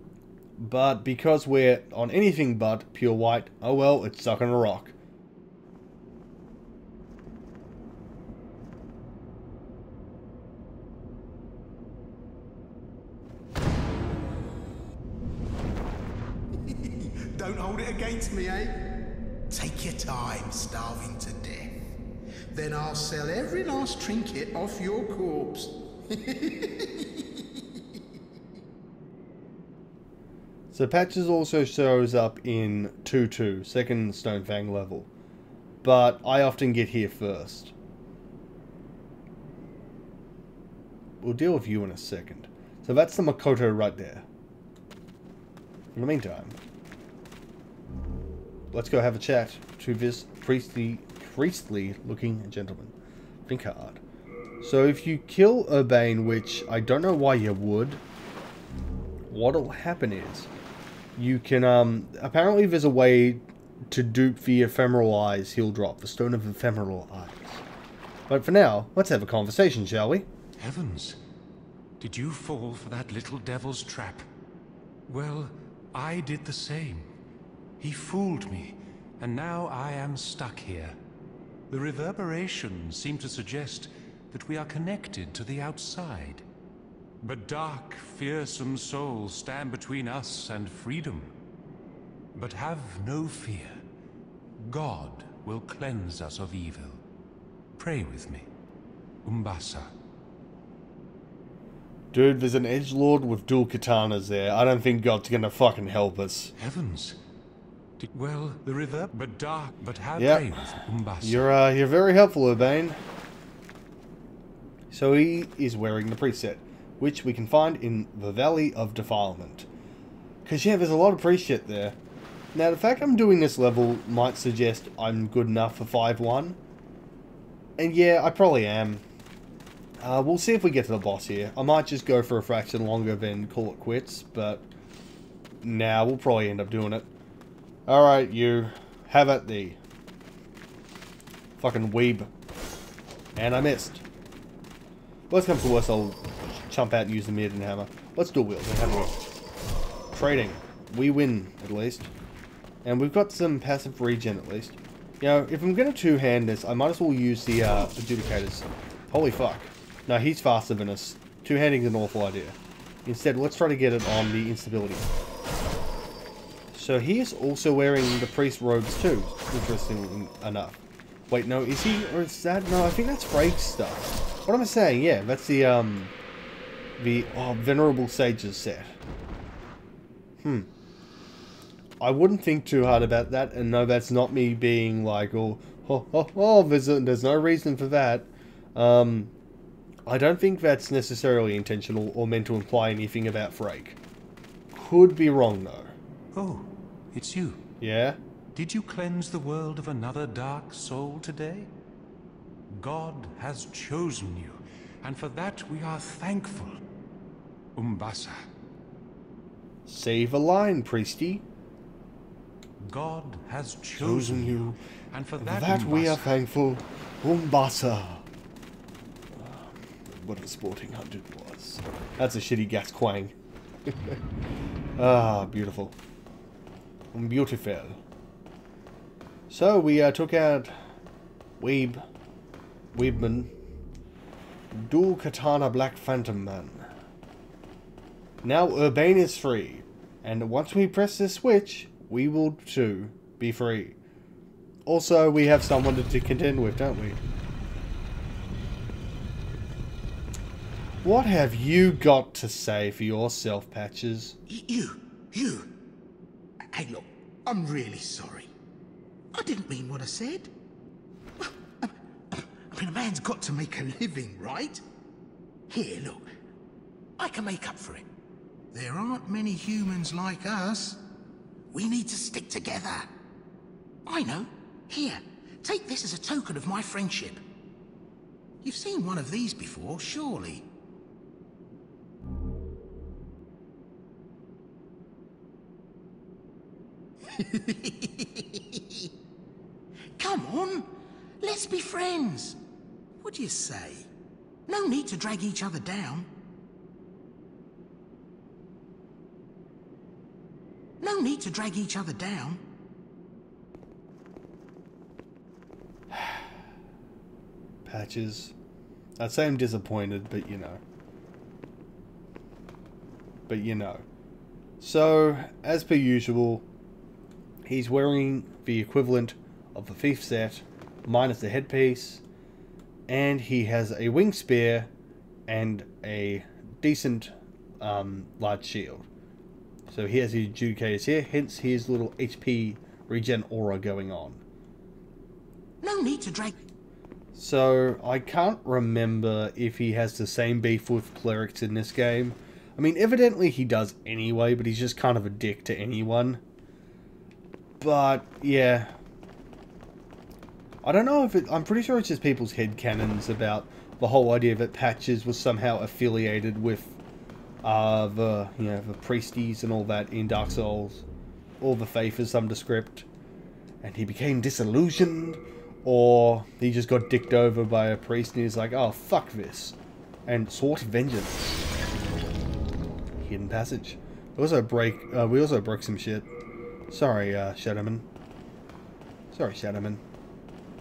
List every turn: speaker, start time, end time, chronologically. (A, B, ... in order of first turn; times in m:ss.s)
0:00.6-0:04.9 A
0:16.5-0:19.0 B
0:19.5-0:21.8 B
0:22.5-0:27.8 B
0:30.7-0:35.1 A
0:35.8-0:37.7 A
0:41.2-0:44.2 A
0:46.0-0:46.6 A
0:48.7-0:52.9 A
0:53.5-0:54.0 A
0:54.6-0:58.0 A
0:59.3-1:00.5 A
1:01.2-1:07.6 A
1:08.3-1:10.3 A
1:10.6-1:11.2 C
1:12.0-1:14.3 C
1:15.1-1:17.1 C
1:17.8-1:21.0 C
1:21.7-1:26.4 C
1:27.2-1:31.3 C
1:32.4-1:33.8 C
1:34.6-1:37.0 C
1:37.8-1:38.5 C
1:39.2-1:39.9 C
1:42.1-1:46.5 A
1:46.6-1:47.2 C
1:48.0-1:51.5 C
1:50.2-1:50.6 A
1:51.2-1:53.0 A
1:54.9-1:59.7 A
2:00.4-2:02.0 A
2:02.5-2:06.6 A
2:07.8-2:09.0 A
2:10.0-2:14.7 A
2:15.6-2:17.1 A
2:17.9-2:19.8 A
2:21.6-2:22.3 A
2:23.4-2:24.0 A
2:25.3-2:29.2 A
2:30.1-2:32.1 A
2:32.8-2:45.1 A
2:46.7-2:56.1 A
2:57.0-2:59.0 A
3:00.4-3:00.7 A
3:02.0-3:09.3 A
3:10.1-3:14.0 A
3:14.7-3:15.9 A
3:16.3-3:17.6 C
3:17.8-3:18.2 A
3:18.5-3:21.7 C
3:22.7-3:26.8 C
3:27.8-3:28.4 C
3:29.9-3:31.4 A
3:32.8-3:36.4 C
3:34.0-3:34.8 A
3:35.4-3:38.2 A
3:39.4-3:43.3 A
3:43.9-3:44.2 A
3:45.0-3:46.0 A
3:47.1-3:48.0 A
3:49.5-3:50.8 A
3:51.6-3:52.0 A
3:52.9-3:53.5 A
3:54.7-3:56.9 A
3:58.4-4:04.0 A
4:04.9-4:07.2 A
4:11.0-4:14.4 A
4:14.5-4:15.8 B
4:16.7-4:18.5 B
4:19.3-4:20.5 B
4:21.4-4:24.8 B
4:25.7-4:26.3 B
4:27.2-4:28.1 B
4:28.7-4:31.0 B
4:31.7-4:33.1 B
4:34.0-4:37.4 B
4:38.6-4:40.7 B
4:47.2-4:49.1 B
4:50.2-4:52.6 B
4:53.2-4:54.1 B
4:54.7-4:56.3 B
5:01.0-5:02.6 B
5:06.1-5:06.5 A
5:07.8-5:08.5 A
5:09.2-5:10.8 A
5:13.5-5:14.0 A
5:14.8-5:16.6 A
5:17.6-5:22.2 A
5:23.1-5:24.9 A
5:25.5-5:29.1 A
5:29.9-5:34.4 A
5:35.8-5:36.6 B
5:37.4-5:46.4 A
5:47.8-5:48.9 A
5:50.8-5:57.0 A
5:57.6-6:01.0 A
6:01.6-6:03.1 A
6:03.8-6:09.8 A
6:10.3-6:11.6 A
6:13.2-6:16.3 A
6:16.9-6:18.0 A
6:19.3-6:20.0 A